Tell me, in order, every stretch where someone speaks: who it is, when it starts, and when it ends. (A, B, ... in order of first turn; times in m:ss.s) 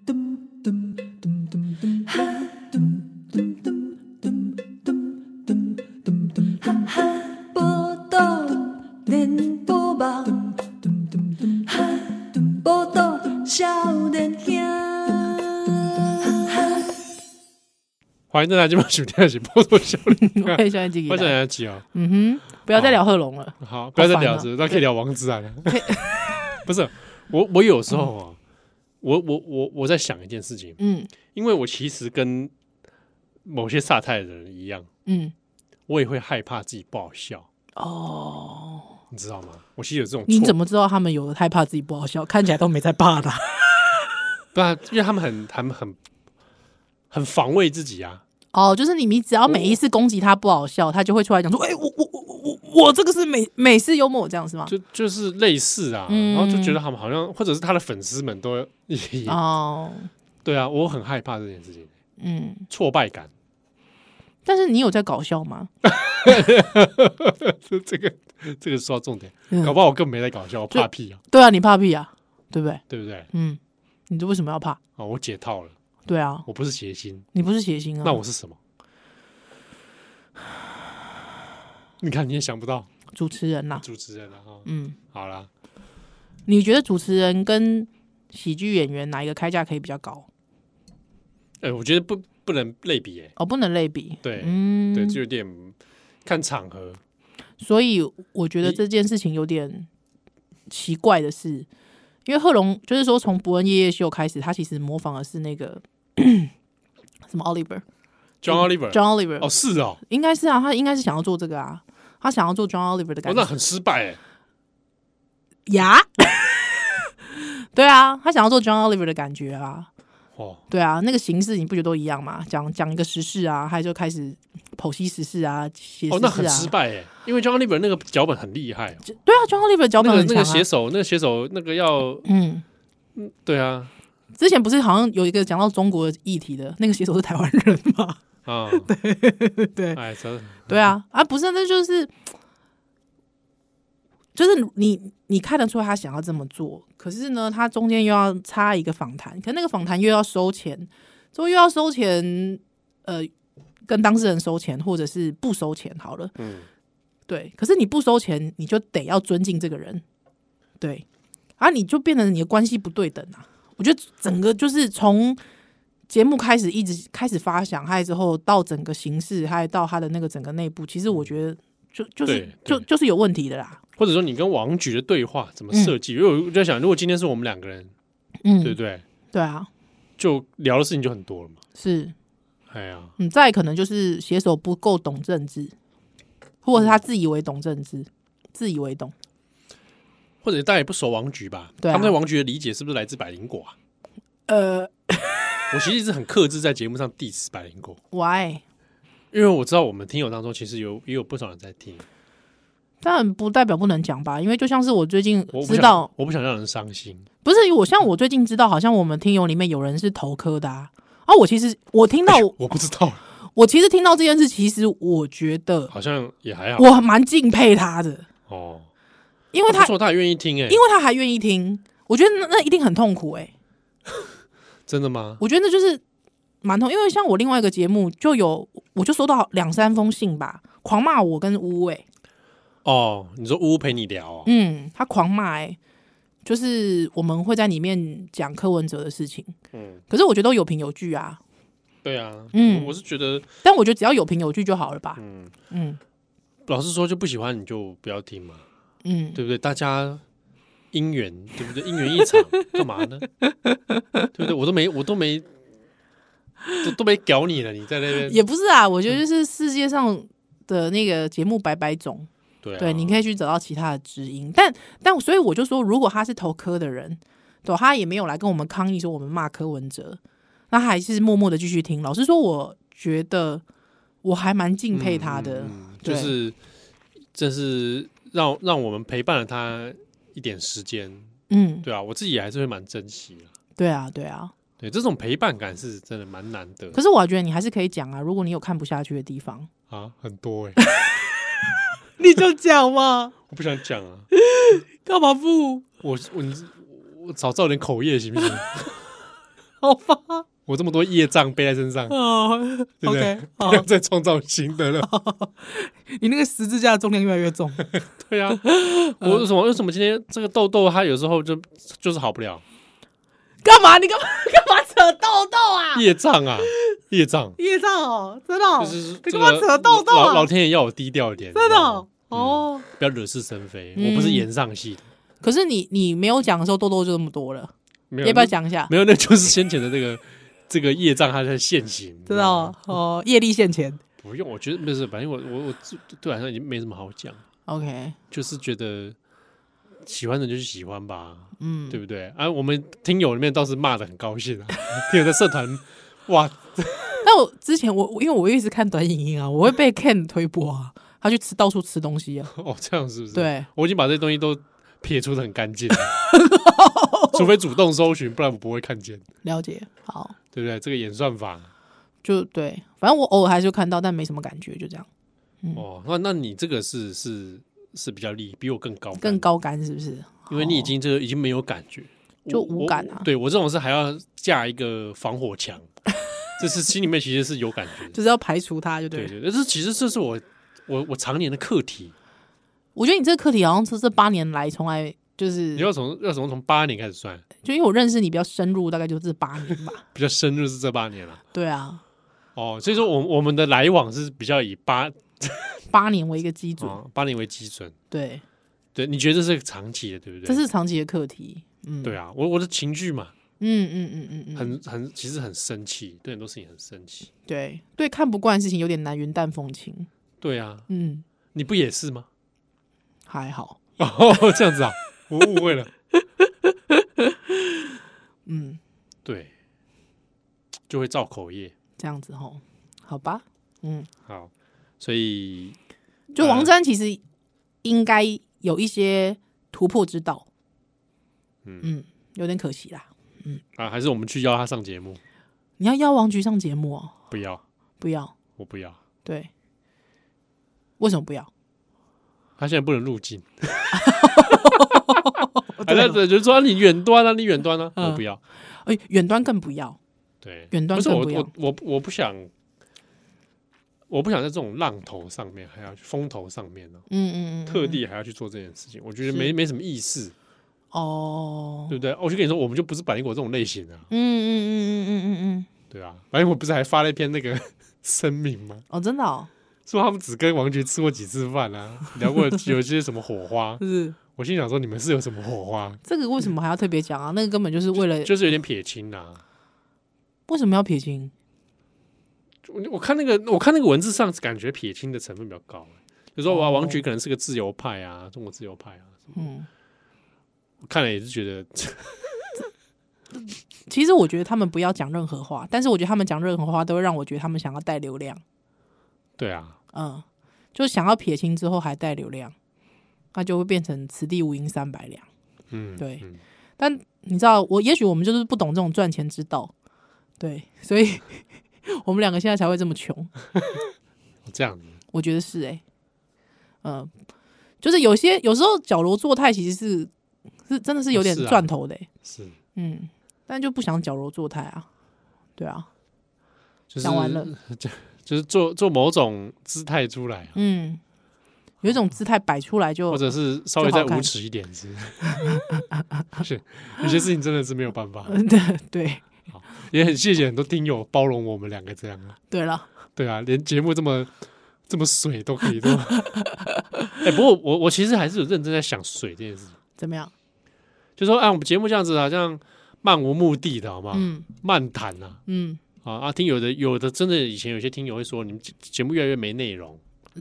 0:00.6-0:17.0 A
0:18.3-0:21.8 B
0:20.2-0:21.4 C
0:21.9-0:24.5 C
0:22.7-0:23.0 B
0:23.6-0:25.9 B
0:25.7-0:26.4 C
0:26.6-0:28.4 B
0:29.0-0:32.5 B
0:30.8-0:31.1 C
0:33.4-0:34.9 B
0:35.1-0:35.3 C
0:35.9-0:37.5 B
0:37.8-0:39.0 C
0:39.1-0:40.6 B
0:40.3-0:43.8 C
0:44.5-0:46.0 B
0:47.1-0:48.2 B
0:48.5-0:54.7 C
0:49.5-0:49.8 B
0:54.7-0:59.4 B
0:56.1-0:56.8 C
0:59.3-1:00.1 C
1:00.4-1:01.9 B
1:02.2-1:02.7 C
1:02.7-1:03.3 B
1:04.5-1:05.7 C
1:05.8-1:11.2 B
1:09.5-1:09.8 C
1:10.7-1:14.8 C
1:12.9-1:13.3 B
1:15.0-1:15.8 B
1:16.1-1:16.4 C
1:16.5-1:17.3 B
1:17.3-1:18.2 C
1:18.0-1:18.6 B
1:22.0-1:22.9 B
1:23.1-1:23.8 C
1:23.8-1:25.5 B
1:24.6-1:25.0 C
1:26.5-1:30.3 C
1:31.6-1:33.3 B
1:33.4-1:35.2 C
1:34.2-1:37.0 B
1:37.6-1:39.9 C
1:40.7-1:41.7 C
1:42.3-1:46.5 C
1:47.3-1:47.8 C
1:48.4-1:50.0 B
1:48.5-1:49.5 C
1:50.1-1:53.5 C
1:53.2-1:54.2 B
1:55.7-1:59.9 C
2:00.4-2:00.6 B
2:00.7-2:06.7 C
2:06.1-2:09.0 B
2:09.0-2:10.7 C
2:10.0-2:12.3 B
2:12.2-2:12.6 C
2:13.2-2:13.9 B
2:14.4-2:18.2 C
2:18.5-2:18.9 B
2:18.7-2:20.0 C
2:20.0-2:20.9 B
2:20.7-2:22.1 C
2:24.4-2:33.3 C
2:33.9-2:36.4 C
2:36.4-2:36.7 B
2:37.3-2:40.0 C
2:40.8-2:41.0 C
2:41.6-2:45.4 C
2:46.1-2:53.8 C
2:52.3-2:52.8 B
2:54.0-2:57.9 B
2:58.4-2:58.8 C
2:58.6-2:59.0 B
2:59.3-2:59.7 C
3:00.2-3:01.6 B
3:01.8-3:02.2 C
3:02.7-3:03.2 B
3:03.2-3:05.7 C
3:06.6-3:09.1 C
3:06.8-3:07.0 B
3:10.4-3:13.7 B
3:11.8-3:12.2 C
3:14.5-3:15.7 C
3:15.7-3:18.0 B
3:18.1-3:18.6 C
3:19.3-3:22.0 B
3:23.0-3:26.1 C
3:25.5-3:27.3 B
3:27.4-3:32.6 C
3:32.3-3:33.2 B
3:33.6-3:35.9 C
3:35.9-3:36.9 B
3:36.8-3:38.3 C
3:38.5-3:38.9 B
3:39.5-3:39.9 C
3:39.7-3:40.8 B
3:40.7-3:43.5 C
3:44.9-3:45.4 B
3:45.4-3:46.0 C
3:46.6-3:52.0 C
3:52.8-3:54.5 B
3:54.4-3:55.8 C
3:56.4-3:59.6 C
3:59.7-4:00.0 B
4:00.1-4:01.4 C
4:02.0-4:03.5 B
4:02.5-4:03.0 C
4:03.6-4:06.0 C
4:05.2-4:05.5 B
4:06.7-4:08.6 B
4:09.0-4:09.4 C
4:09.4-4:10.2 B
4:10.9-4:13.3 B
4:13.7-4:14.3 C
4:14.3-4:15.5 B
4:16.8-4:18.4 B
4:18.2-4:33.6 C
4:22.6-4:23.2 B
4:34.2-4:36.4 C
4:34.9-4:36.6 B
4:37.3-4:41.3 B
4:41.5-4:41.9 C
4:41.8-4:43.5 B
4:43.8-4:44.5 C
4:44.8-4:47.0 B
4:46.9-4:49.7 C
4:49.9-4:50.8 B
4:50.8-4:51.2 C
4:52.2-4:53.3 C
4:53.4-4:54.3 B
4:54.3-4:55.8 C
4:56.0-4:58.9 B
4:59.8-5:00.4 C
5:00.7-5:02.2 B
5:02.1-5:03.9 C
5:03.0-5:05.1 B
5:05.0-5:07.9 C
5:08.0-5:08.6 B
5:08.5-5:09.4 C
5:09.2-5:12.6 B
5:13.6-5:16.1 C
5:15.9-5:17.6 B
5:17.6-5:20.5 C
5:18.8-5:25.1 B
5:21.5-5:22.9 C
5:24.0-5:24.5 C
5:25.4-5:28.9 C
5:28.1-5:33.0 B
5:32.3-5:34.0 C
5:34.2-5:37.4 B
5:37.7-5:38.2 C
5:38.3-5:39.2 B
5:40.0-5:47.2 B
5:41.6-5:42.0 C
5:47.2-5:52.5 C
5:52.5-5:56.2 B
5:53.3-5:53.7 C
5:56.2-5:57.5 C
5:57.3-5:59.2 B
5:59.4-6:00.4 C
6:00.5-6:01.7 B
6:02.2-6:05.1 C
6:05.8-6:09.5 B
6:09.2-6:10.9 C
6:10.5-6:15.9 B
6:12.5-6:13.3 C
6:16.6-6:18.2 B
6:18.1-6:19.3 C
6:19.1-6:22.1 B
6:23.0-6:25.9 C
6:25.8-6:27.4 B
6:27.6-6:30.0 C
6:30.1-6:31.4 B
6:31.5-6:32.0 C
6:32.6-6:35.8 B
6:35.9-6:37.0 C
6:36.8-6:38.0 B
6:38.1-6:38.4 C
6:39.0-6:40.6 B
6:40.5-6:42.2 C
6:42.0-6:43.3 B
6:43.6-6:44.8 C
6:44.6-6:47.3 B
6:47.5-6:50.1 C
6:50.4-6:50.9 B
6:50.9-6:51.2 C
6:51.5-6:52.3 B
6:53.3-6:53.8 C
6:54.0-6:55.9 B
6:58.5-6:58.8 C
6:59.2-6:59.5 B
7:00.9-7:01.7 B
7:02.0-7:04.1 C
7:04.3-7:05.8 B
7:06.4-7:07.2 C
7:06.4-7:06.7 B
7:07.8-7:10.5 C
7:11.8-7:13.6 C
7:13.8-7:15.2 B
7:15.8-7:17.2 C
7:17.3-7:17.6 B
7:18.0-7:18.3 C
7:18.6-7:19.0 B
7:19.2-7:19.5 C
7:21.0-7:21.5 C
7:22.6-7:25.0 B
7:23.9-7:26.2 C
7:25.8-7:28.4 B
7:28.0-7:30.0 C
7:30.4-7:32.5 B
7:30.7-7:31.5 C
7:34.1-7:37.0 B
7:37.1-7:38.0 C
7:37.7-7:40.3 B
7:39.3-7:39.5 C
7:40.9-7:41.9 C
7:41.9-7:44.1 B
7:44.1-7:45.7 C
7:45.9-7:48.8 B
7:48.9-7:49.5 C
7:49.9-7:56.0 B
7:53.8-7:54.2 C
7:56.0-7:58.3 C
7:58.0-7:59.4 B
8:00.5-8:01.3 C
8:02.6-8:09.3 B
8:06.5-8:07.0 C
8:09.4-8:09.7 C
8:10.8-8:12.4 B
8:13.9-8:18.4 C
8:19.4-8:19.8 B
8:19.9-8:22.5 C
8:23.3-8:25.3 C
8:25.7-8:26.4 B
8:26.0-8:26.2 C
8:26.8-8:29.7 C
8:30.4-8:33.3 C
8:34.4-8:35.0 B
8:35.1-8:35.8 C
8:36.8-8:37.1 C
8:37.8-8:40.1 C
8:40.7-8:42.1 C
8:41.1-8:41.7 B
8:42.2-8:42.6 B
8:42.8-8:44.9 C
8:45.6-8:45.9 C
8:46.9-8:50.6 B
8:47.0-8:47.5 C
8:50.6-8:51.0 C
8:51.8-8:54.3 C
8:53.1-8:55.6 B
8:56.4-8:58.4 B
8:58.3-8:59.3 C
8:59.5-9:02.4 B
9:02.5-9:02.9 C
9:03.2-9:04.3 B
9:04.9-9:06.3 B
9:06.2-9:07.2 C
9:07.2-9:09.8 B
9:10.0-9:10.3 C
9:11.2-9:15.4 B
9:14.1-9:14.5 C
9:15.5-9:15.8 C
9:16.0-9:20.0 B